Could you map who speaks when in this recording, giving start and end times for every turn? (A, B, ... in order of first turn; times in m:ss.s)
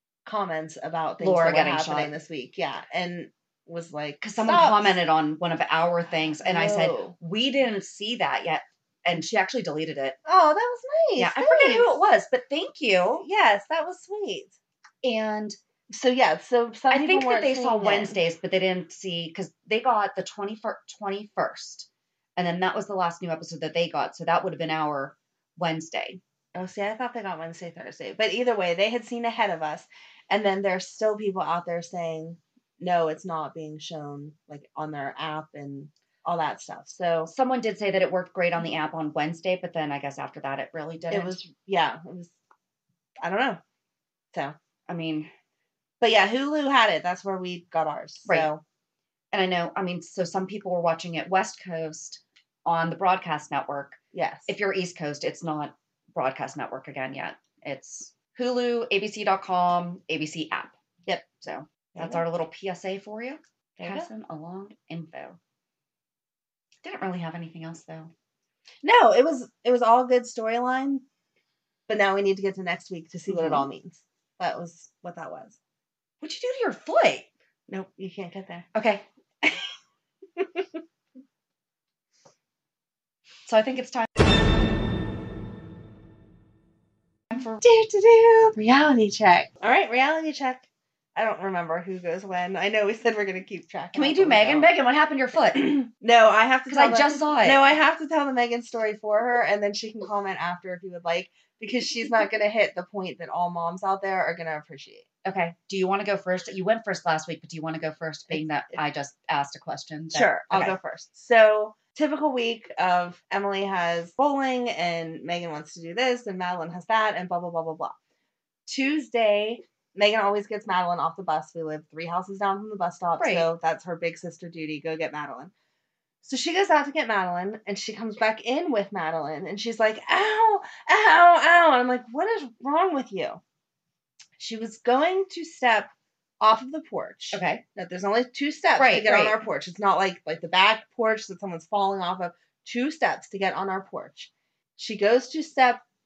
0:00.2-0:05.0 A
0:01.2-0:02.1 B
0:04.2-0:10.2 B
0:06.4-0:07.1 A
0:10.3-0:12.0 A
0:11.2-0:13.2 B
0:13.2-0:14.6 A
0:15.0-0:15.6 B
0:15.9-0:18.2 A
0:16.9-0:26.2 B
0:26.6-0:37.3 A
0:37.3-0:41.4 B
0:41.1-0:42.3 A
0:43.2-0:43.6 A
0:44.9-0:45.3 B
0:46.0-0:48.6 A
0:49.3-1:00.8 B
0:54.1-0:54.5 A
1:01.3-1:05.4 B
1:01.9-1:02.2 A
1:03.8-1:04.1 A
1:06.8-1:08.1 B
1:08.8-1:11.0 A
1:11.9-1:15.6 A
1:13.3-1:13.7 B
1:16.2-1:17.3 B
1:17.7-1:18.7 A
1:18.7-1:19.0 B
1:23.5-1:24.1 B
1:27.3-1:27.6 B
1:27.6-1:34.7 A
1:33.9-1:35.7 B
1:35.5-1:45.1 A
1:36.7-1:37.7 B
1:45.2-1:50.8 B
1:50.1-1:58.0 A
1:58.7-2:05.5 A
2:03.2-2:03.5 B
2:06.2-2:13.4 A
2:14.4-2:25.8 A
2:17.3-2:17.6 B
2:18.8-2:19.4 B